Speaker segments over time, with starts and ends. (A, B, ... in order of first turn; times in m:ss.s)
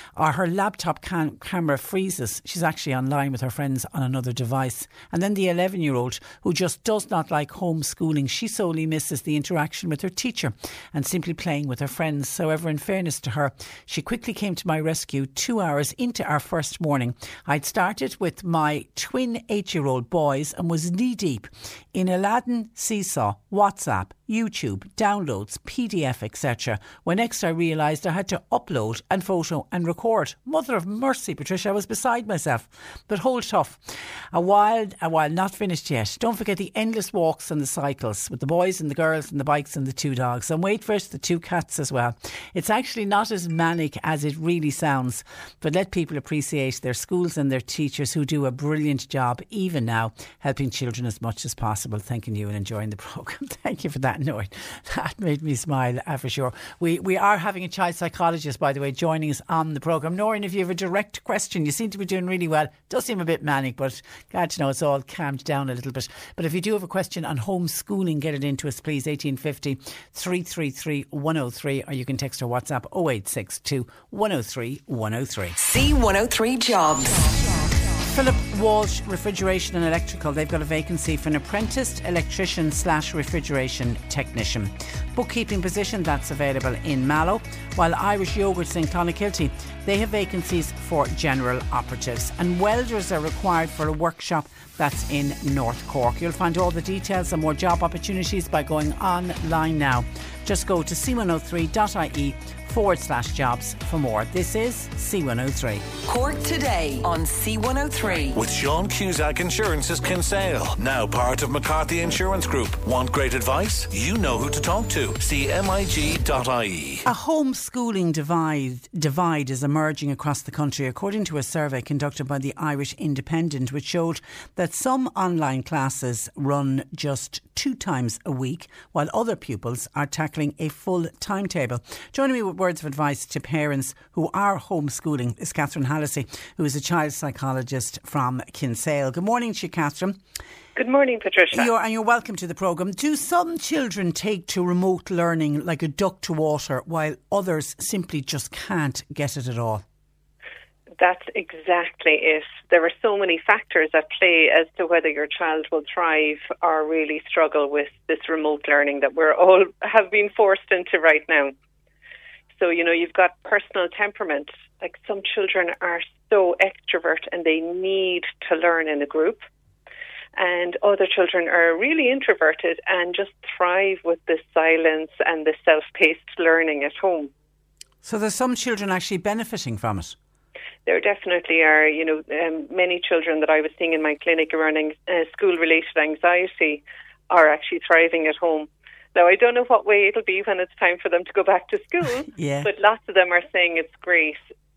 0:00.2-1:15.6 A
1:15.6-1:17.2 B
1:18.1-1:45.8 A
1:46.0-1:48.4 B
1:48.3-1:57.0 C
1:57.0-2:20.2 A
2:20.8-2:21.7 D
2:21.5-2:29.8 A
2:31.0-2:41.5 D
2:42.5-2:49.4 D
2:50.4-2:57.3 D
2:58.0-3:00.2 A
3:00.8-3:14.4 D
3:12.3-3:12.7 A